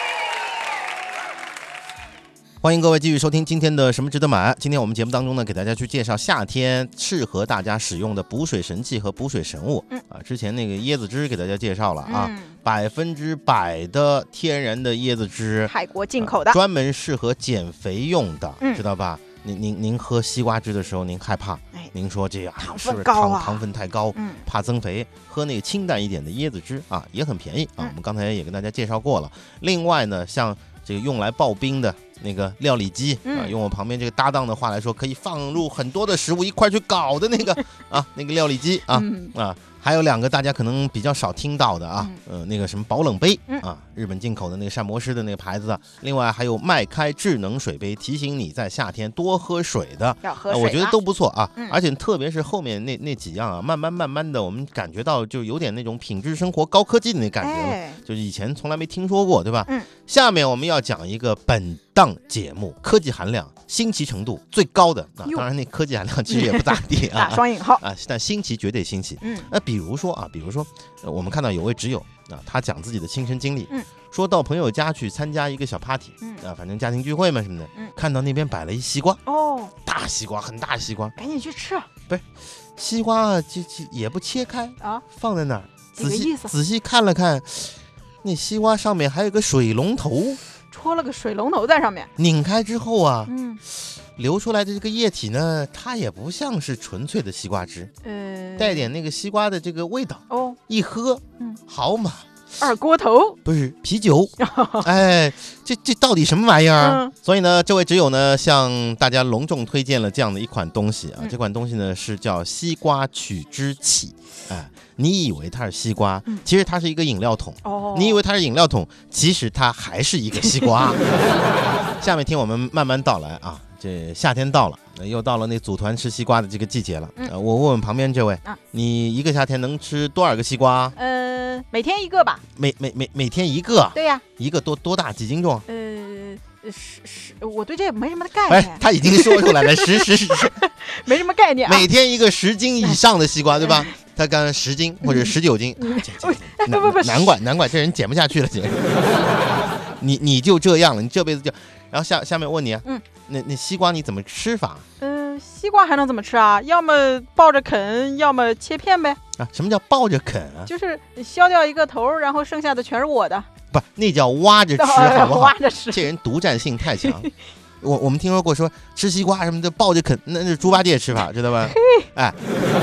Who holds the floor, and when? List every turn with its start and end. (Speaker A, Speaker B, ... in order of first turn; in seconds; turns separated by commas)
Speaker A: 2.6-79.2, Speaker B: 12.1-12.6, Speaker B: 15.7-16.6, Speaker B: 22.6-23.6, Speaker B: 24.1-24.4, Speaker B: 33.2-33.5, Speaker B: 38.9-39.3, Speaker B: 50.2-51.0, Speaker B: 57.4-58.0, Speaker B: 66.3-67.8, Speaker B: 69.2-69.5, Speaker B: 79.3-79.7, Speaker A: 79.8-81.2, Speaker B: 81.2-81.9, Speaker A: 82.1-90.4, Speaker B: 86.0-86.5, Speaker B: 90.7-92.1, Speaker A: 92.2-97.9, Speaker B: 93.3-93.6, Speaker B: 98.0-98.9, Speaker A: 98.6-102.3, Speaker B: 100.3-100.6, Speaker B: 102.6-103.4, Speaker A: 103.5-121.4, Speaker B: 104.4-104.9, Speaker B: 106.8-107.1, Speaker B: 117.6-118.2, Speaker A: 122.0-130.9, Speaker B: 130.9-132.4, Speaker A: 132.5-135.7, Speaker B: 133.9-134.2, Speaker B: 135.7-141.9, Speaker A: 138.5-140.6, Speaker A: 141.7-148.8, Speaker B: 143.6-143.9, Speaker B: 145.0-147.3, Speaker A: 150.0-154.8, Speaker B: 155.0-159.2, Speaker A: 159.4-160.7, Speaker B: 160.7-163.5, Speaker A: 163.7-167.3, Speaker B: 164.8-166.1, Speaker B: 167.0-167.3, Speaker A: 167.8-172.4, Speaker B: 171.7-172.1